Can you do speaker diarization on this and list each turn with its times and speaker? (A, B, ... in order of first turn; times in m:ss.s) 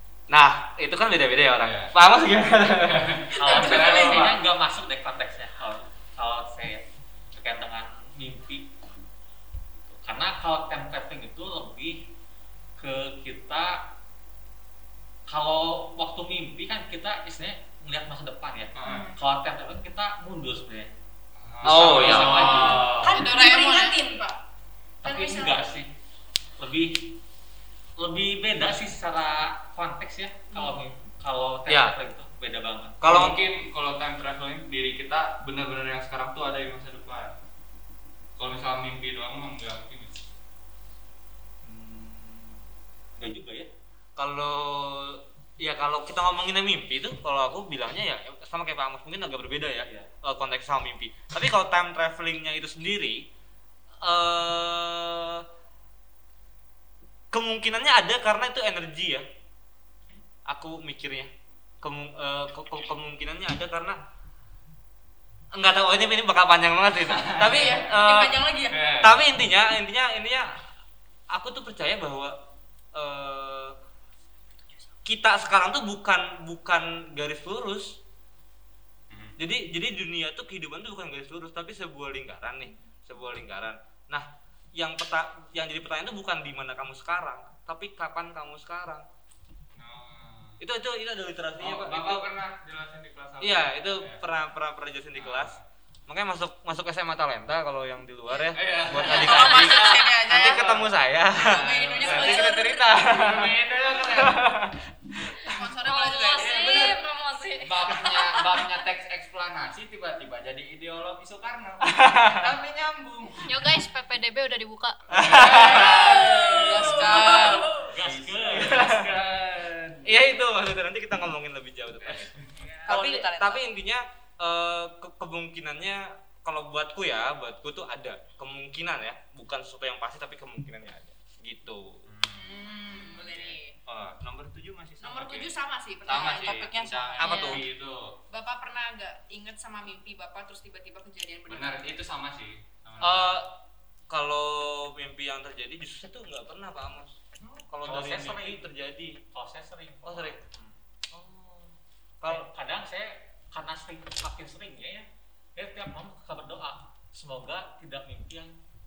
0:00.3-0:03.3 A
0:01.6-0:01.9 B
0:02.8-0:04.4 B
0:03.4-0:08.7 C
0:03.4-0:04.3 D
0:09.8-0:12.1 C
0:12.8-0:13.9 C
0:15.3-0:20.9 C
0:18.7-0:19.1 B
0:21.4-0:23.2 B
0:21.6-0:23.4 C
0:21.6-0:22.8 A
0:22.7-0:24.4 D
0:25.0-0:25.9 C
0:25.0-0:25.8 D
0:26.6-0:27.2 C
0:28.0-0:33.0 C
0:31.7-0:32.0 A
0:33.0-0:33.4 A
0:33.0-0:37.3 B
0:38.4-0:40.2 B
0:41.7-0:42.3 C
0:43.2-0:43.7 C
0:44.2-0:53.2 A
0:54.0-0:55.4 A
0:57.3-0:59.2 A
1:00.5-1:01.3 A
1:01.8-1:04.0 A
1:05.5-1:10.5 A
1:07.0-1:07.8 B
1:07.4-1:08.8 D
1:08.7-1:09.2 B
1:11.3-1:12.4 A
1:12.9-1:13.8 A
1:15.0-1:18.0 A
1:19.1-1:19.4 B
1:19.4-1:29.0 A
1:29.8-1:30.6 B
1:30.6-1:32.3 A
1:31.6-1:34.2 B
1:33.4-1:35.6 A
1:35.1-1:35.6 B
1:36.1-1:45.4 A
1:38.5-1:40.9 B
1:39.0-1:40.7 D
1:41.4-1:42.8 D
1:41.6-1:44.5 B
1:45.4-1:46.8 D
1:45.8-1:47.9 E
1:46.4-1:47.0 B
1:47.6-1:53.7 B
1:51.9-1:52.4 A
1:53.4-1:55.0 E
1:55.1-1:56.4 A
1:55.1-2:00.1 B
1:55.4-1:57.8 D
1:56.7-1:59.0 C
1:58.7-1:59.0 A
2:00.0-2:12.0 A
2:02.0-2:02.8 B
2:02.8-2:03.6 D
2:12.0-2:18.2 B
2:12.3-2:13.7 D
2:15.0-2:17.6 D
2:17.2-2:17.6 A
2:18.3-2:21.8 D
2:21.5-2:23.4 B
2:23.0-2:23.5 A
2:24.1-2:27.2 A
2:27.7-2:29.2 A
2:27.8-2:28.7 C
2:29.3-2:30.5 C
2:30.0-2:30.4 A
2:31.1-2:32.5 A
2:32.2-2:38.5 C